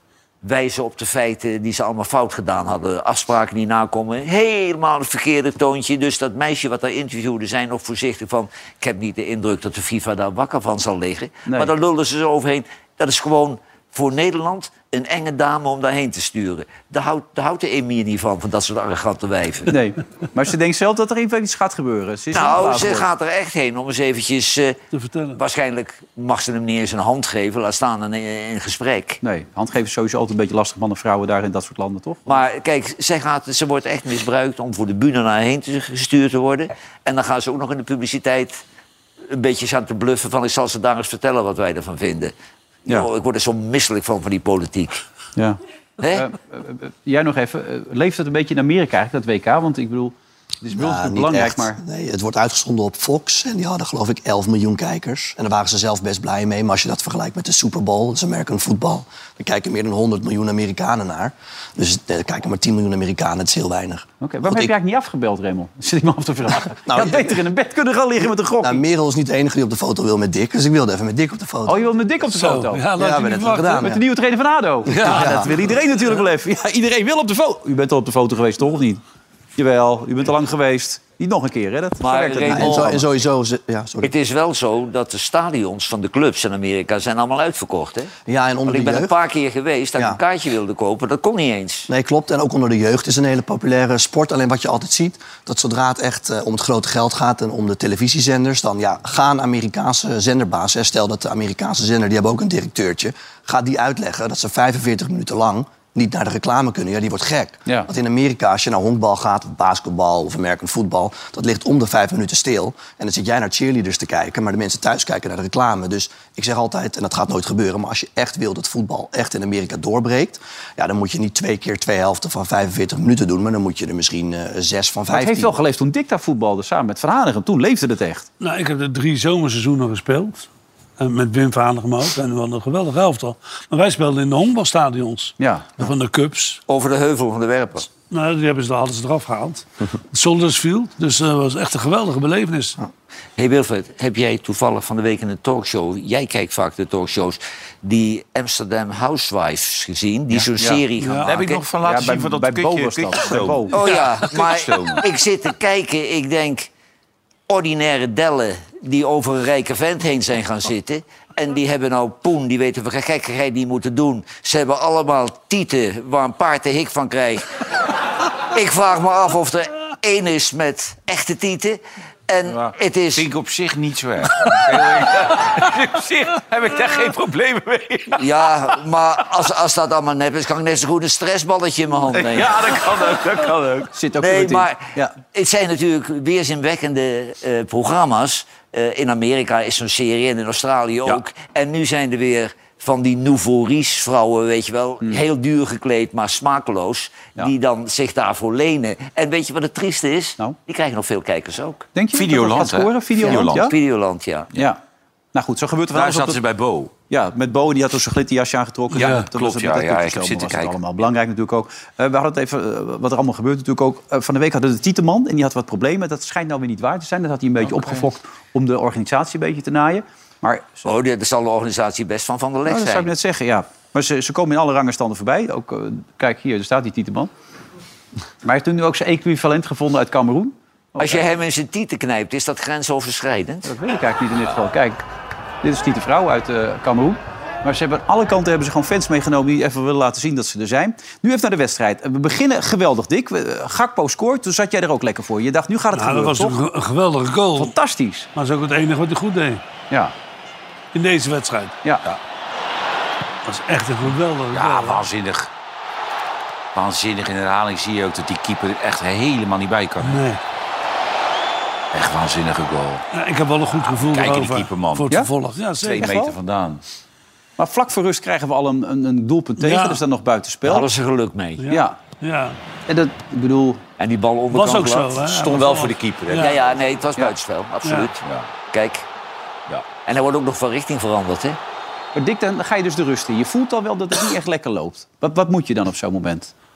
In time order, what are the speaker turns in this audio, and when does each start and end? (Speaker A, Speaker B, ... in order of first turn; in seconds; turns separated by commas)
Speaker A: 0.4-19.8, Speaker B: 11.5-11.7, Speaker B: 19.7-23.1, Speaker A: 22.3-24.8, Speaker C: 24.9-25.4, Speaker A: 25.4-29.2, Speaker B: 29.2-32.4, Speaker A: 32.3-38.6, Speaker A: 39.3-42.3, Speaker A: 42.9-45.0, Speaker B: 45.4-51.8, Speaker A: 46.0-46.2, Speaker D: 50.7-64.7, Speaker B: 64.2-68.8, Speaker D: 66.8-67.4, Speaker D: 68.6-71.9, Speaker B: 71.7-72.9, Speaker C: 72.3-73.8, Speaker D: 73.0-74.0, Speaker B: 73.6-79.0, Speaker C: 74.9-75.6, Speaker D: 74.9-75.5, Speaker B: 79.6-83.0, Speaker A: 82.0-83.0, Speaker D: 82.5-84.1, Speaker A: 84.0-88.2, Speaker D: 88.3-89.1, Speaker A: 88.7-91.9, Speaker D: 91.9-125.6, Speaker B: 125.1-128.3, Speaker C: 128.4-130.5, Speaker C: 131.0-136.6, Speaker B: 135.4-135.8, Speaker A: 136.7-137.9, Speaker C: 138.1-142.8, Speaker A: 143.4-151.6, Speaker B: 150.6-150.8, Speaker C: 151.0-151.3, Speaker E: 151.2-155.1, Speaker B: 151.8-153.8, Speaker A: 153.7-156.7, Speaker A: 157.5-167.5, Speaker A: 168.5-173.3, Speaker E: 172.5-178.5, Speaker A: 178.2-182.8, Speaker E: 182.1-183.9, Speaker B: 183.9-185.1, Speaker A: 184.2-184.8, Speaker A: 185.3-201.9, Speaker B: 201.9-203.8, Speaker E: 202.1-203.7, Speaker A: 203.2-204.5, Speaker B: 204.6-204.8, Speaker B: 205.3-206.4, Speaker E: 205.9-206.9, Speaker B: 207.1-220.9, Speaker E: 208.9-210.8, Speaker E: 217.6-218.1, Speaker A: 220.8-223.1, Speaker B: 222.7-227.3, Speaker B: 228.4-231.2, Speaker A: 231.0-233.7, Speaker B: 233.7-235.0, Speaker B: 235.6-246.6, Speaker C: 245.9-247.7, Speaker B: 247.6-248.3, Speaker C: 248.3-249.6, Speaker C: 250.9-251.7, Speaker C: 253.5-255.0, Speaker E: 254.5-255.5, Speaker E: 256.7-260.2, Speaker C: 260.0-260.4, Speaker E: 261.9-263.0, Speaker C: 263.1-266.1, Speaker E: 263.8-265.2, Speaker E: 265.8-266.8, Speaker B: 266.0-266.4, Speaker B: 267.6-270.9, Speaker C: 269.6-270.0, Speaker A: 270.6-271.7, Speaker C: 271.6-272.6, Speaker B: 271.7-272.0, Speaker B: 272.9-273.8, Speaker A: 274.0-275.2, Speaker C: 274.5-276.6, Speaker E: 275.3-276.5, Speaker A: 276.4-279.1, Speaker E: 278.2-278.5, Speaker A: 280.1-281.6, Speaker B: 282.1-286.5